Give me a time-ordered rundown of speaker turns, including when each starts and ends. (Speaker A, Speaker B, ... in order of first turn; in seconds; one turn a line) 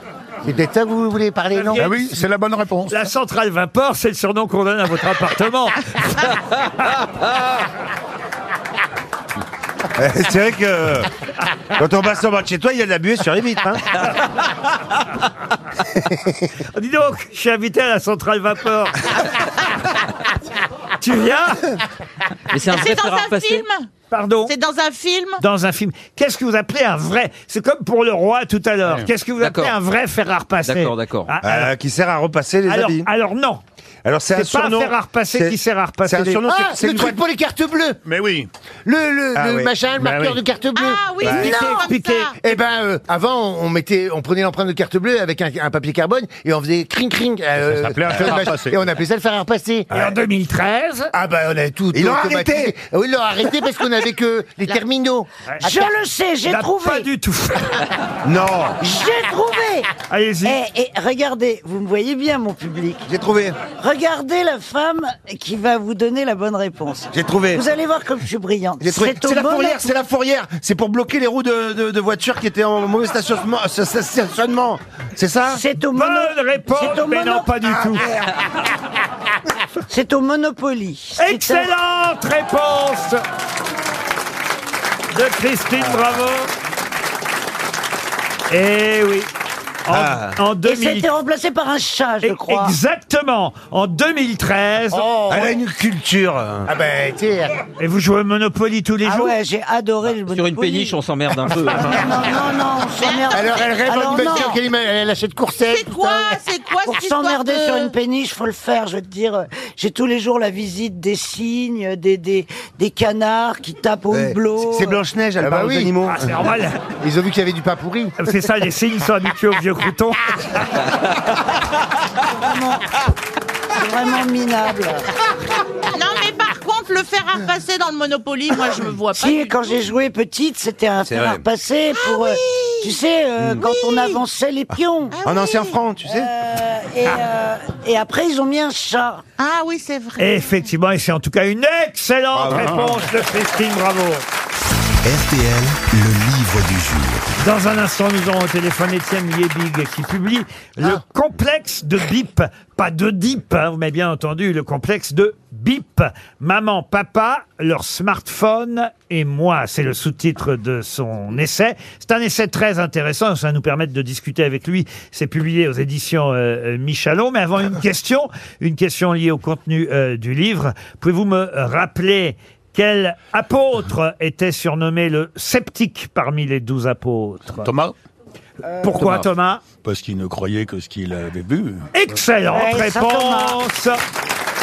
Speaker A: 0.4-2.2
Speaker B: 1.5-2.0
Speaker C: 1.8-3.0
Speaker B: 2.9-6.7
Speaker D: 10.0-11.1
Speaker D: 11.7-13.9
Speaker B: 16.7-19.1
Speaker B: 21.0-21.8
Speaker E: 22.5-23.6
Speaker F: 22.7-23.9
Speaker B: 24.1-24.5
Speaker F: 24.5-25.4
Speaker B: 25.4-31.7
Speaker E: 29.4-29.8
Speaker E: 30.6-31.3
Speaker D: 31.4-33.1
Speaker B: 32.7-33.6
Speaker D: 34.0-37.2
Speaker B: 34.3-36.4
Speaker A: 36.5-38.0
Speaker C: 38.0-38.5
Speaker A: 38.9-41.6
Speaker D: 39.4-39.7
Speaker C: 40.0-40.4
Speaker F: 40.8-42.4
Speaker B: 41.2-42.3
Speaker G: 41.5-41.9
Speaker A: 42.4-49.9
Speaker C: 47.6-48.8
Speaker B: 49.9-51.1
Speaker A: 51.1-55.9
Speaker D: 51.9-52.7
Speaker G: 55.6-57.1
Speaker B: 56.5-57.9
Speaker D: 58.2-58.8
Speaker G: 58.8-59.9
Speaker B: 60.1-60.6
Speaker G: 60.4-63.1
Speaker D: 63.1-63.6
Speaker G: 63.7-69.9
Speaker D: 67.1-67.6
Speaker D: 68.8-75.6
Speaker G: 75.5-78.1
Speaker B: 75.9-78.1
Speaker G: 79.9-81.7
Speaker B: 81.2-83.2
Speaker B: 85.1-86.5
Speaker B: 88.5-89.3
Speaker B: 89.9-91.1
Speaker D: 89.9-90.4
Speaker G: 90.6-92.8
Speaker B: 92.2-95.1
Speaker A: 94.9-95.6
Speaker D: 95.3-96.7
Speaker A: 96.7-97.6
Speaker B: 97.8-99.3
Speaker G: 99.0-101.0
Speaker E: 100.3-102.0
Speaker G: 101.8-104.6
Speaker F: 103.0-104.6
Speaker A: 103.3-106.4
Speaker F: 105.7-107.9
Speaker G: 106.8-115.0
Speaker D: 114.1-116.4
Speaker A: 115.4-115.9
Speaker B: 116.1-116.8
Speaker A: 117.0-118.3
Speaker B: 118.2-120.8
Speaker G: 122.2-123.0
Speaker G: 123.7-125.0
Speaker F: 125.9-129.8
Speaker G: 129.1-135.2
Speaker D: 131.1-131.4
Speaker F: 131.9-133.0
Speaker D: 133.4-133.7
Speaker F: 133.6-134.2
Speaker F: 135.1-135.8
Speaker D: 135.2-136.3
Speaker G: 136.1-139.2
Speaker F: 139.4-140.6
Speaker B: 140.2-144.2
Speaker D: 142.3-142.9
Speaker C: 142.5-142.9
Speaker H: 145.0-147.3
Speaker B: 147.4-177.7
Speaker C: 177.6-177.9
Speaker G: 178.6-179.1
Speaker B: 178.8-179.6
Speaker C: 179.0-179.2
Speaker C: 179.8-181.9
Speaker B: 181.9-184.0
Speaker G: 182.5-183.6